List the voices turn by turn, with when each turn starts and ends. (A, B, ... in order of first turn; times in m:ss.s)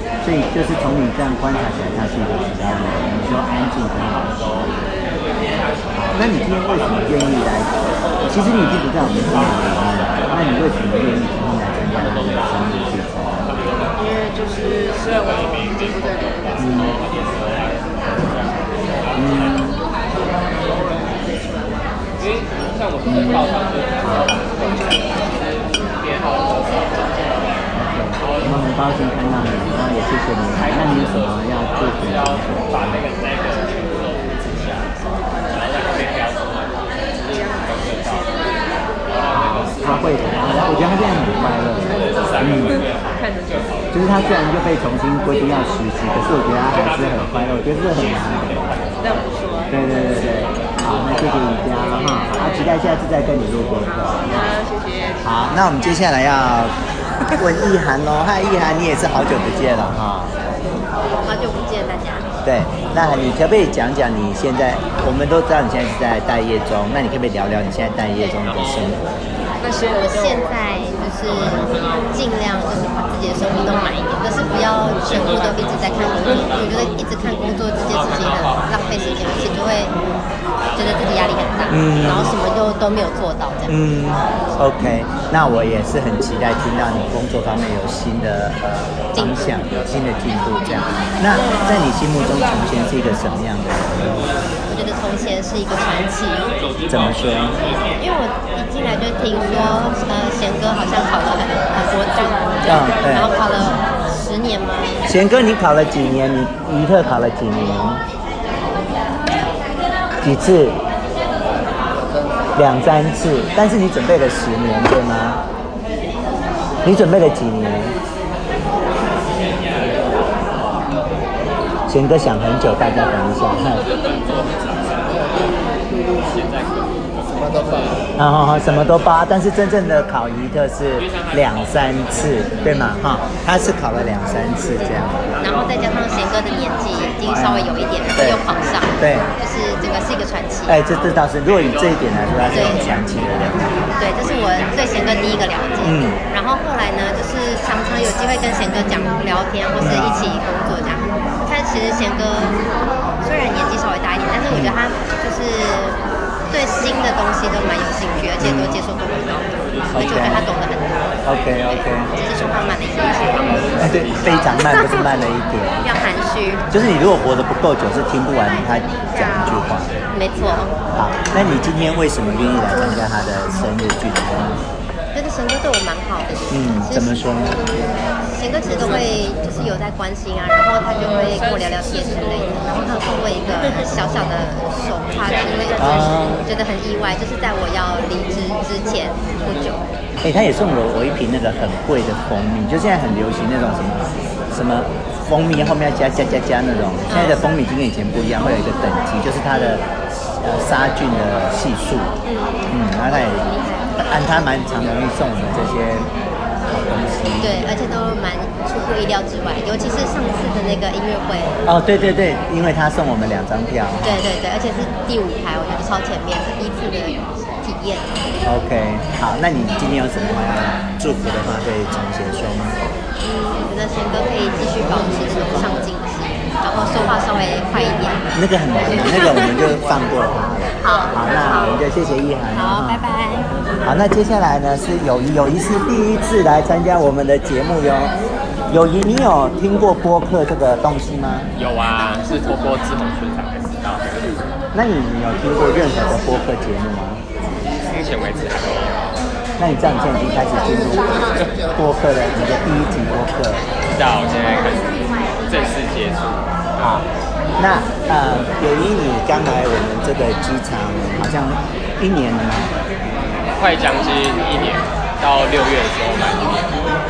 0:00.2-0:04.7 A
0:04.6-0:05.7 B
0:05.9-0:07.7 A
0:08.2-0:13.6 A
0:13.9-0:17.0 B
0:16.6-0:17.0 A
0:18.1-0:18.7 B
0:19.1-0:19.8 A
0:20.0-0:27.4 B
0:23.0-0:23.5 A
0:24.0-0:24.4 A
0:27.7-0:33.0 A
0:33.4-0:36.3 B
0:37.1-0:38.7 B
0:39.8-0:42.8 A
0:41.8-0:43.8 B
0:43.9-0:48.9 A
0:49.0-0:49.8 B
0:49.7-0:54.4 A
0:51.9-0:52.8 B
0:54.0-0:55.3 B
0:55.2-0:56.8 A
0:57.3-1:00.4 A
1:01.1-1:02.3 C
1:02.4-1:09.2 A
1:09.6-1:10.6 B
1:10.0-1:20.0 C
1:20.7-1:23.8 C
1:21.7-1:22.4 A
1:23.7-1:34.3 A
1:29.1-1:29.5 C
1:31.4-1:31.8 B
1:34.7-1:36.5 C
1:36.8-1:37.6 A
1:38.0-1:45.1 C
1:41.9-1:43.7 B
1:42.6-1:43.4 A
1:45.0-1:48.0 A
1:50.2-1:50.8 A
1:52.5-1:55.4 A
1:56.8-1:58.0 A
2:01.9-2:03.8 A
2:08.2-2:15.3 A
2:12.6-2:12.9 C
2:15.4-2:20.8 C
2:17.3-2:18.4 A
2:19.0-2:19.3 A
2:20.7-2:23.6 A
2:22.5-2:23.0 C
2:24.0-2:32.6 C
2:25.8-2:26.2 A
2:29.8-2:30.2 A
2:33.2-2:41.1 C
2:34.5-2:34.8 A
2:38.4-2:38.8 A
2:39.9-2:40.5 A
2:41.2-2:42.1 A
2:42.1-2:43.8 C
2:43.8-2:45.8 A
2:44.5-2:45.2 C
2:45.8-2:46.6 C
2:46.7-2:50.0 A
2:49.2-2:49.5 C
2:50.1-2:50.8 C
2:50.9-2:54.6 A
2:55.1-3:09.9 C
2:56.5-2:57.6 A
3:00.9-3:04.0 B
3:05.3-3:06.1 B
3:05.8-3:06.5 A
3:10.2-3:22.1 A
3:17.1-3:17.4 C
3:19.5-3:19.8 C
3:22.2-3:24.3 C
3:22.7-3:26.1 A
3:26.7-3:27.7 A
3:27.4-3:31.6 C
3:31.6-3:34.3 A
3:34.0-3:38.3 C
3:38.4-3:42.8 A
3:43.2-3:48.3 C
3:48.3-3:53.0 A
3:48.8-3:49.6 C
3:50.8-3:51.8 C
3:52.5-3:53.5 C
3:53.8-3:58.2 A
3:58.7-4:01.5 A
4:01.5-4:04.4 D
4:04.7-4:07.2 A
4:07.6-4:09.2 D
4:09.6-4:13.6 A
4:13.8-4:16.5 D
4:16.8-4:17.0 A
4:17.6-4:22.7 A
4:23.5-4:26.8 D